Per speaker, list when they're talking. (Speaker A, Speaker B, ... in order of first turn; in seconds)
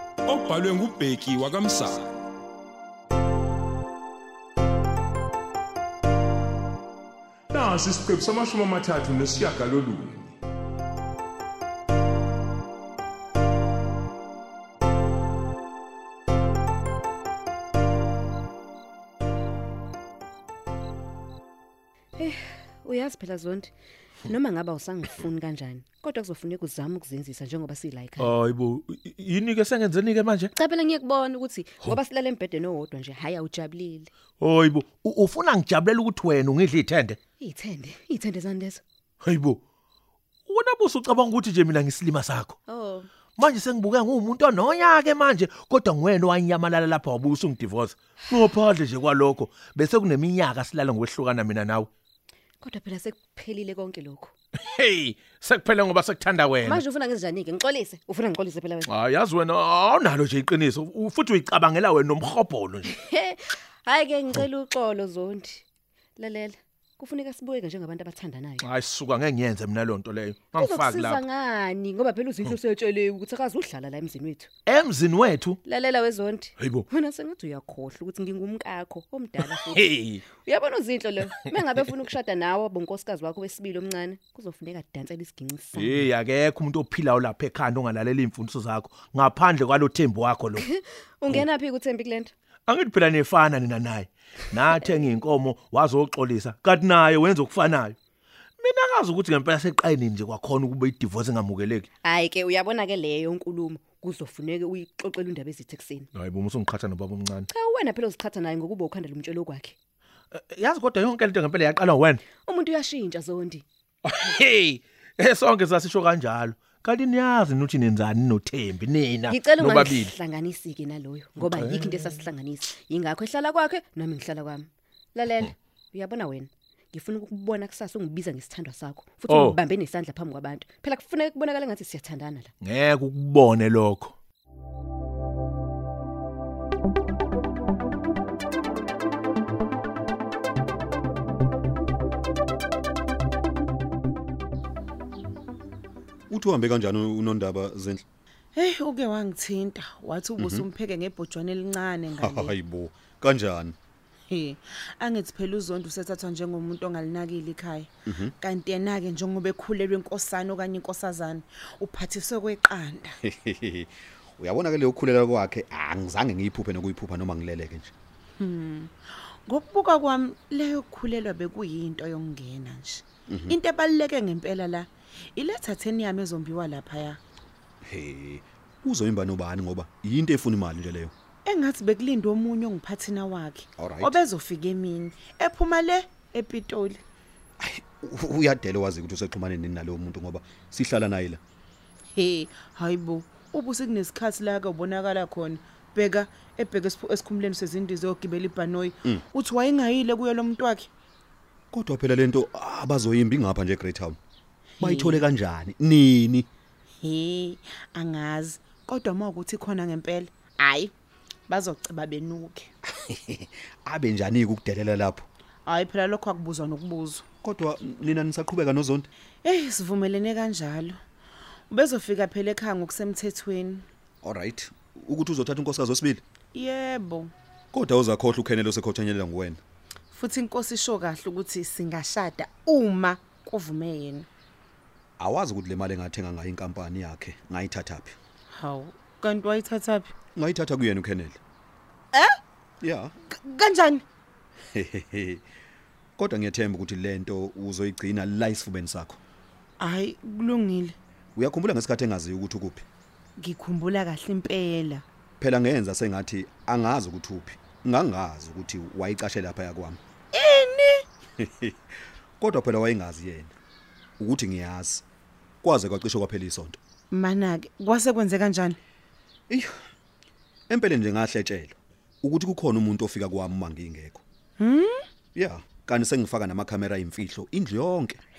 Speaker A: 0.3-2.1, 7.5-10.3
Speaker B: 22.1-23.7, 24.2-28.3, 30.5-34.1, 37.4-38.8, 42.7-43.1, 52.6-54.3, 56.6-58.9, 62.9-65.6, 66.2-68.6, 70.5-74.5, 75.6-86.0, 90.6-92.3, 102.0-106.1, 107.5-109.8, 112.5-113.6, 119.3-132.5
Speaker C: 28.2-30.5, 34.4-37.2, 39.2-39.6, 40.5-42.6, 43.4-51.9, 54.6-56.8, 58.9-62.9, 68.6-71.2, 74.7-75.6, 76.6-76.8, 79.7-80.2, 85.8-90.6, 92.7-98.0, 98.6-101.9, 106.1-107.5, 110.3-112.2, 114.0-120.1, 121.4-122.0, 129.3-129.6, 132.6-134.1
Speaker D: 146.3-148.0, 150.4-150.7, 152.2-153.8, 163.3-167.9, 177.8-181.1, 183.8-184.1, 187.6-191.4, 201.7-204.2, 204.8-206.5, 213.1-215.2, 217.4-219.0, 224.2-226.2, 227.7-229.6, 235.2-238.2, 240.4-241.4, 244.7-245.4, 246.2-249.2, 251.3-252.8, 255.4-260.0, 261.4-261.7, 262.4-263.5, 264.2-265.0, 265.6-266.8, 270.7-274.2, 275.4-278.2
Speaker E: 148.5-152.5, 154.3-163.1, 168.4-177.2, 181.4-187.0, 192.1-200.9, 204.8-205.2, 207.0-210.9, 211.5-212.7, 215.7-217.2, 219.4-221.0, 221.7-223.8, 226.5-227.3, 230.1-234.3, 238.5-240.1, 243.3-244.0, 249.8-251.0, 253.4-255.0, 260.3-261.1, 267.1-268.8, 274.6-275.0